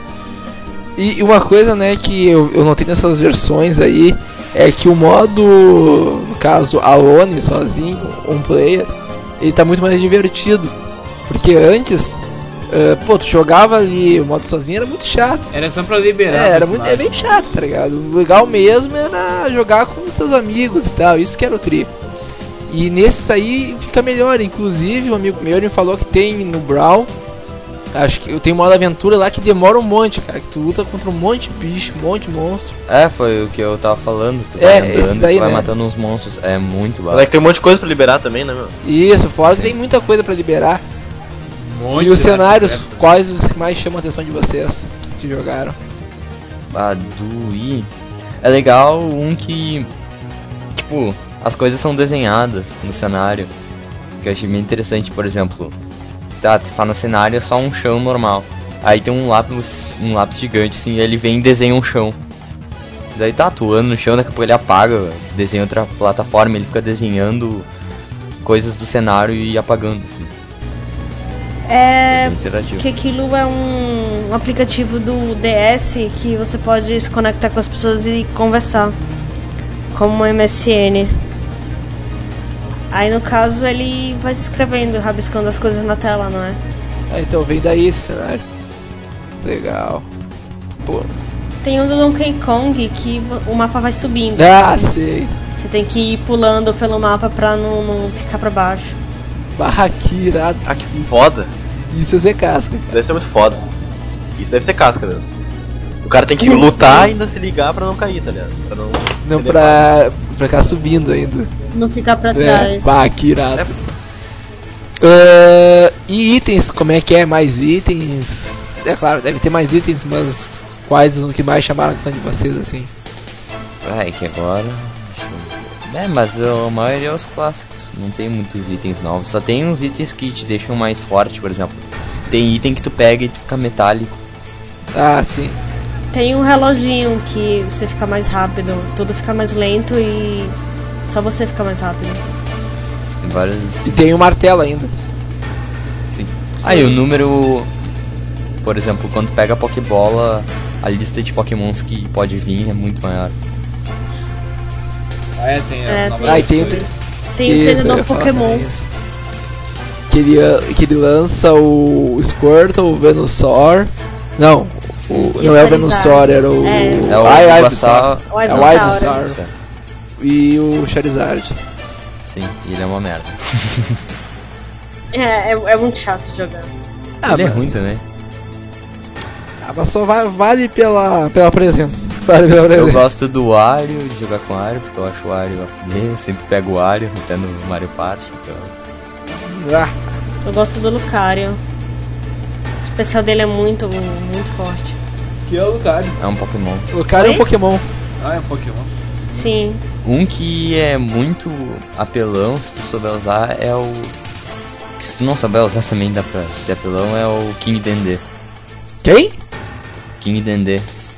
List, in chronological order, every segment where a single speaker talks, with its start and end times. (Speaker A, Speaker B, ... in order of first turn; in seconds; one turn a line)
Speaker A: 1.0-15.5
Speaker B: 15.5-17.3
Speaker A: 16.3-21.9
Speaker A: 22.7-27.1
Speaker A: 27.9-32.8
Speaker C: 32.9-37.3
Speaker A: 34.6-35.7
Speaker D: 37.1-38.7
Speaker A: 38.8-40.8
Speaker C: 39.4-39.8
Speaker B: 41.5-43.1
Speaker A: 42.0-45.8
Speaker C: 46.7-47.9
Speaker C: 48.4-49.9
Speaker C: 50.7-53.5
Speaker C: 54.2-55.8
Speaker C: 56.4-62.2
Speaker C: 63.1-67.7
Speaker C: 68.4-70.3
Speaker E: 71.7-79.0
Speaker C: 72.1-72.8
Speaker E: 79.9-81.2
Speaker E: 82.9-86.6
Speaker A: 87.1-88.4
Speaker A: 89.4-90.0
Speaker A: 90.8-91.1
Speaker E: 91.6-94.9
Speaker A: 94.3-95.3
Speaker E: 95.5-99.0
Speaker A: 99.5-101.2
Speaker D: 100.7-101.5
Speaker A: 101.9-102.9
Speaker D: 102.9-103.6
Speaker D: 104.4-105.2
Speaker D: 106.0-109.8
Speaker E: 106.4-107.1
Speaker A: 109.2-111.5
Speaker E: 111.7-113.0
Speaker A: 112.3-113.8
Speaker A: 115.0-122.9
Speaker C: 123.8-134.2
Speaker A: 134.9-135.6
Speaker E: 136.1-142.2
Speaker C: 143.2-144.0
Speaker A: 143.8-144.9
Speaker C: 146.1-147.7
Speaker C: 148.6-153.3
Speaker B: 155.3-156.9
Speaker E: 155.9-158.7
Speaker A: 156.2-156.8
Speaker A: 157.4-158.9
Speaker A: 160.1-169.4
Speaker C: 165.0-165.3
Speaker E: 165.4-167.2
Speaker C: 167.1-169.5
Speaker E: 168.3-169.3
Speaker A: 170.2-171.6
Speaker C: 172.2-174.0
Speaker E: 175.1-176.7
Speaker A: 177.2-177.7
Speaker C: 177.2-178.0
Speaker A: 179.6-183.0
Speaker C: 182.7-188.7
Speaker A: 189.4-189.9
Speaker E: 190.4-191.6
Speaker E: 192.8-195.0
Speaker B: 195.5-196.2
Speaker C: 196.2-196.9
Speaker A: 196.9-197.8
Speaker E: 197.1-197.4
Speaker B: 198.2-199.5
Speaker E: 199.3-199.8
Speaker C: 200.0-204.2
Speaker C: 205.0-208.2
Speaker A: 209.0-209.4
Speaker C: 210.2-210.9